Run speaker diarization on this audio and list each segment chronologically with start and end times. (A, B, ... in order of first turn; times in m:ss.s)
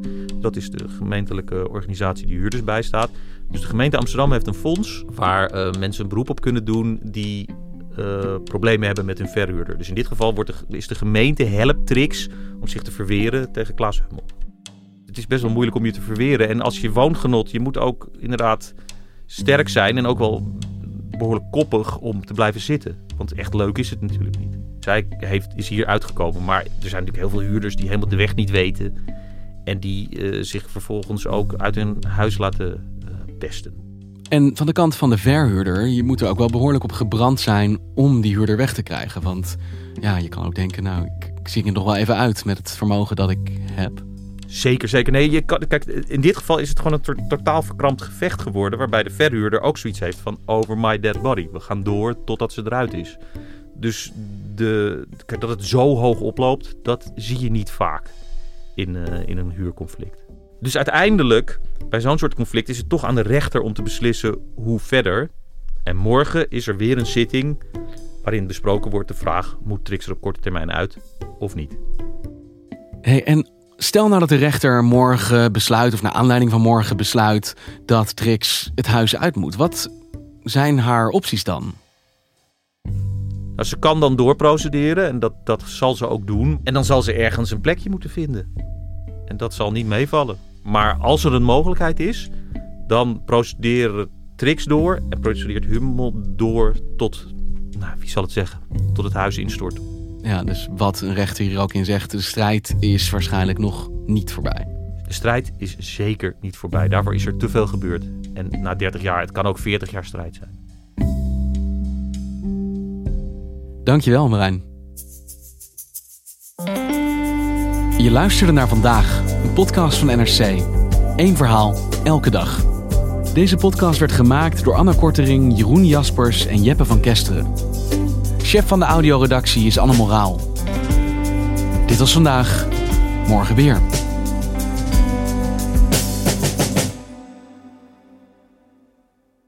0:00.4-0:14.3 A
0:15.1-0:18.7 A
0:19.3-0:28.9 A
0:29.6-0:33.8 A
0:34.3-0:44.0 B
0:44.5-0:53.2 A
0:53.8-0:58.1 A
0:58.8-1:05.3 A
1:05.8-1:07.6 A
1:08.2-1:11.8 A
1:13.0-1:19.9 B
1:20.4-1:21.8 B
1:23.6-1:28.5 A
1:29.3-1:32.3 A
1:32.9-1:39.8 A
1:40.2-1:44.7 B
1:45.0-1:50.6 A
1:53.8-1:54.6 B
1:58.0-2:02.6 B
2:03.3-2:07.5 B
2:08.4-2:10.5 B
2:11.9-2:12.7 B
2:13.2-2:13.8 B